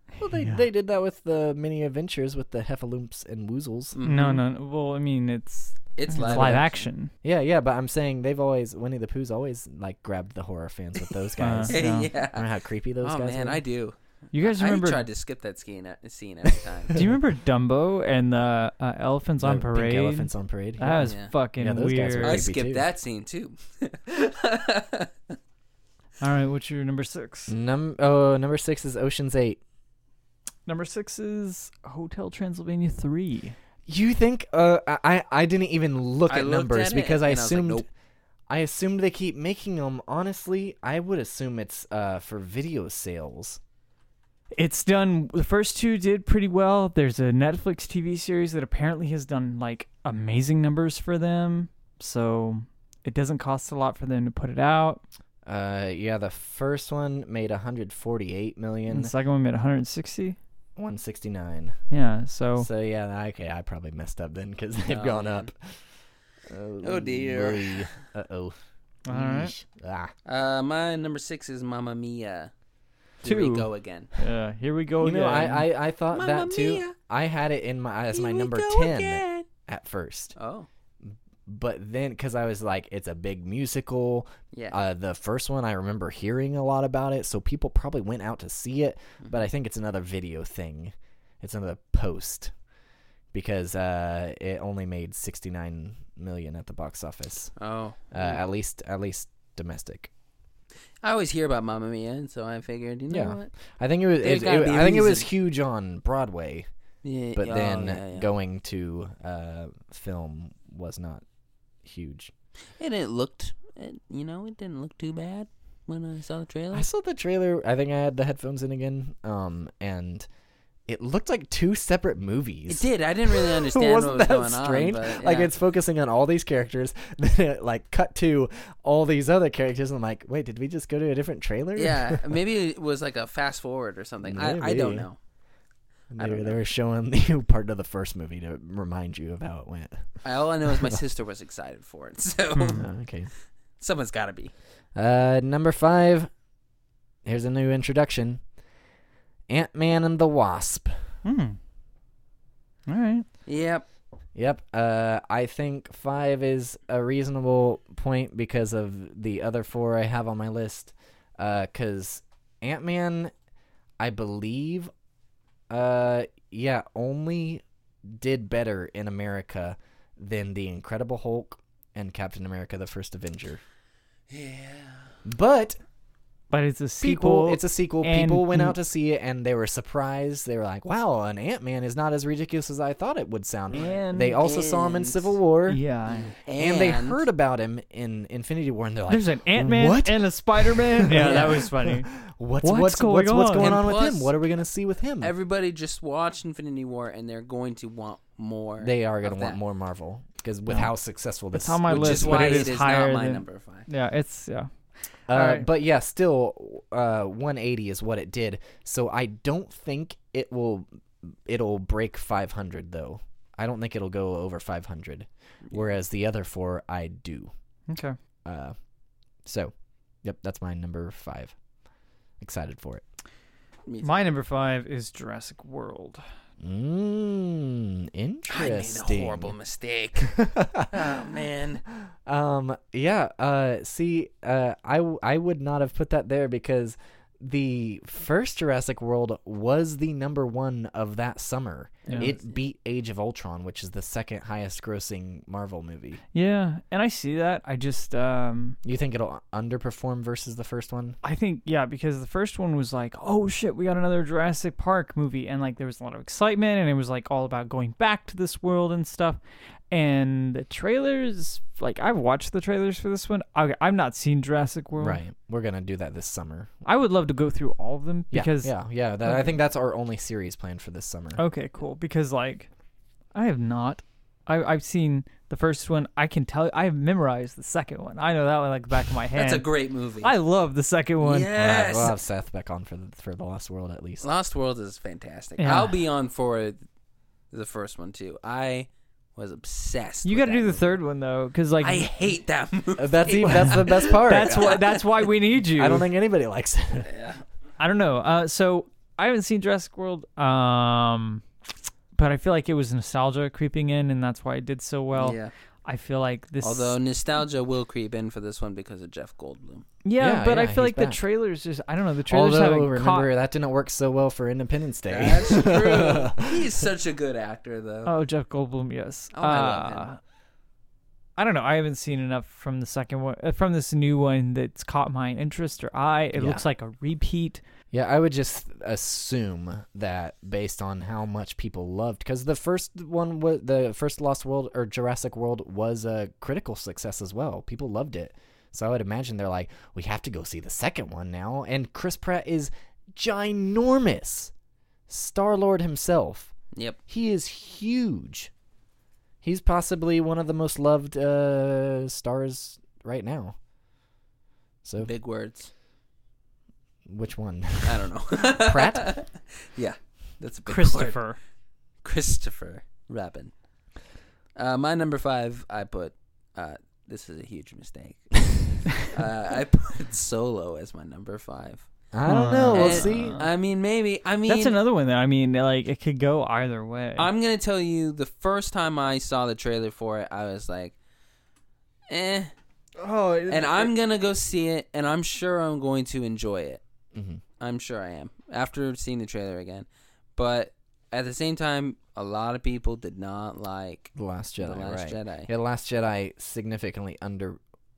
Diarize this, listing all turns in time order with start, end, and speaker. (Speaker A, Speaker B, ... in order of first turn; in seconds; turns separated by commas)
Speaker A: 0.2-4.0, Speaker B: 0.3-0.6, Speaker C: 3.9-4.4, Speaker B: 4.0-7.1, Speaker C: 6.0-6.8, Speaker A: 6.3-6.6, Speaker A: 7.2-13.6, Speaker B: 11.4-12.1, Speaker C: 11.7-17.0, Speaker B: 14.3-15.1, Speaker B: 16.9-22.4, Speaker A: 19.4-22.9, Speaker C: 21.0-21.3, Speaker C: 22.2-25.1, Speaker B: 26.2-27.5, Speaker A: 27.5-29.6, Speaker B: 30.6-33.5, Speaker A: 33.9-37.9, Speaker C: 36.3-37.8, Speaker A: 38.5-43.6, Speaker B: 44.5-55.0, Speaker A: 55.4-59.1, Speaker B: 58.9-60.4, Speaker A: 60.8-61.8, Speaker B: 61.9-62.7, Speaker A: 62.5-65.8, Speaker C: 64.8-65.5, Speaker A: 66.5-70.1, Speaker C: 66.8-67.9, Speaker B: 69.0-69.5, Speaker C: 70.2-72.5, Speaker C: 73.2-74.1, Speaker B: 73.2-75.7, Speaker A: 75.0-80.3, Speaker C: 76.1-77.0, Speaker C: 78.1-79.5, Speaker C: 80.3-80.7, Speaker A: 81.0-92.5, Speaker C: 84.5-84.8, Speaker A: 93.3-97.5, Speaker C: 97.6-98.4, Speaker A: 98.1-100.1, Speaker C: 101.0-103.5, Speaker A: 103.1-106.7, Speaker C: 104.2-105.3, Speaker C: 107.0-108.3, Speaker A: 107.3-111.2, Speaker A: 111.8-112.3, Speaker C: 112.8-116.8, Speaker A: 116.7-120.3, Speaker A: 120.9-132.4, Speaker C: 122.7-125.5, Speaker C: 131.8-135.2, Speaker A: 134.2-135.1, Speaker A: 136.1-141.0, Speaker C: 136.2-136.6, Speaker C: 140.2-142.9, Speaker A: 142.8-143.3, Speaker C: 143.8-144.5, Speaker A: 144.9-146.3, Speaker A: 147.2-148.4, Speaker A: 149.5-151.0, Speaker B: 151.2-151.6, Speaker B: 152.9-153.2, Speaker C: 153.4-153.8, Speaker A: 154.3-163.3, Speaker A: 164.0-164.9, Speaker A: 165.7-173.6, Speaker C: 174.3-175.1, Speaker A: 175.2-175.8, Speaker B: 176.5-178.8, Speaker A: 177.0-185.8, Speaker B: 183.7-184.4, Speaker C: 183.7-185.3, Speaker B: 185.7-186.3, Speaker C: 186.1-187.2, Speaker A: 186.5-195.3, Speaker B: 189.1-192.1, Speaker C: 191.2-191.6, Speaker B: 192.6-193.8, Speaker C: 193.6-194.4, Speaker C: 195.2-199.6, Speaker A: 198.8-202.7, Speaker B: 200.7-200.9, Speaker B: 201.5-204.7, Speaker C: 201.9-203.9, Speaker A: 205.3-217.5, Speaker B: 205.3-205.7, Speaker B: 217.9-218.2, Speaker A: 218.4-218.8, Speaker A: 219.4-221.5, Speaker A: 222.4-223.0, Speaker C: 223.8-224.1, Speaker B: 224.0-226.2, Speaker A: 226.6-229.5, Speaker C: 228.5-231.8, Speaker A: 230.3-231.1, Speaker A: 232.2-246.2, Speaker B: 242.1-242.3, Speaker C: 242.1-242.6, Speaker B: 246.3-248.8, Speaker A: 248.8-251.2, Speaker B: 251.2-259.4, Speaker B: 259.9-265.2, Speaker A: 264.9-266.7, Speaker B: 266.8-268.7, Speaker A: 268.3-271.4, Speaker B: 269.2-269.5, Speaker B: 271.4-272.7, Speaker B: 273.3-279.7, Speaker C: 279.3-280.3, Speaker B: 280.2-281.5, Speaker C: 281.2-282.1, Speaker A: 281.6-284.2, Speaker C: 284.2-286.8, Speaker B: 285.6-285.9, Speaker C: 287.5-291.0, Speaker B: 290.2-292.1, Speaker C: 291.8-295.0, Speaker A: 293.0-294.8, Speaker B: 294.0-296.1, Speaker A: 295.7-297.1, Speaker C: 297.0-297.4, Speaker B: 297.8-301.4, Speaker B: 302.1-307.0, Speaker C: 305.1-305.5, Speaker C: 306.6-309.9, Speaker B: 310.0-313.3, Speaker A: 310.2-311.2, Speaker A: 312.2-316.7, Speaker C: 315.1-318.1, Speaker B: 318.1-320.2, Speaker C: 319.3-320.1, Speaker B: 321.4-327.6, Speaker A: 326.3-326.6, Speaker A: 327.9-344.5, Speaker A: 345.1-346.5, Speaker A: 347.1-348.5, Speaker A: 349.4-353.6, Speaker A: 354.8-355.1, Speaker C: 355.0-355.7, Speaker A: 357.1-359.2, Speaker C: 357.8-361.2, Speaker B: 360.6-361.4, Speaker C: 362.0-363.5, Speaker C: 364.6-371.9, Speaker A: 372.1-373.4, Speaker B: 372.2-373.5, Speaker C: 372.7-374.8, Speaker B: 374.5-377.3, Speaker C: 377.2-380.9, Speaker C: 382.1-382.5, Speaker B: 383.0-383.9, Speaker C: 383.5-386.8, Speaker A: 387.1-387.4, Speaker C: 387.6-395.5, Speaker A: 394.1-397.6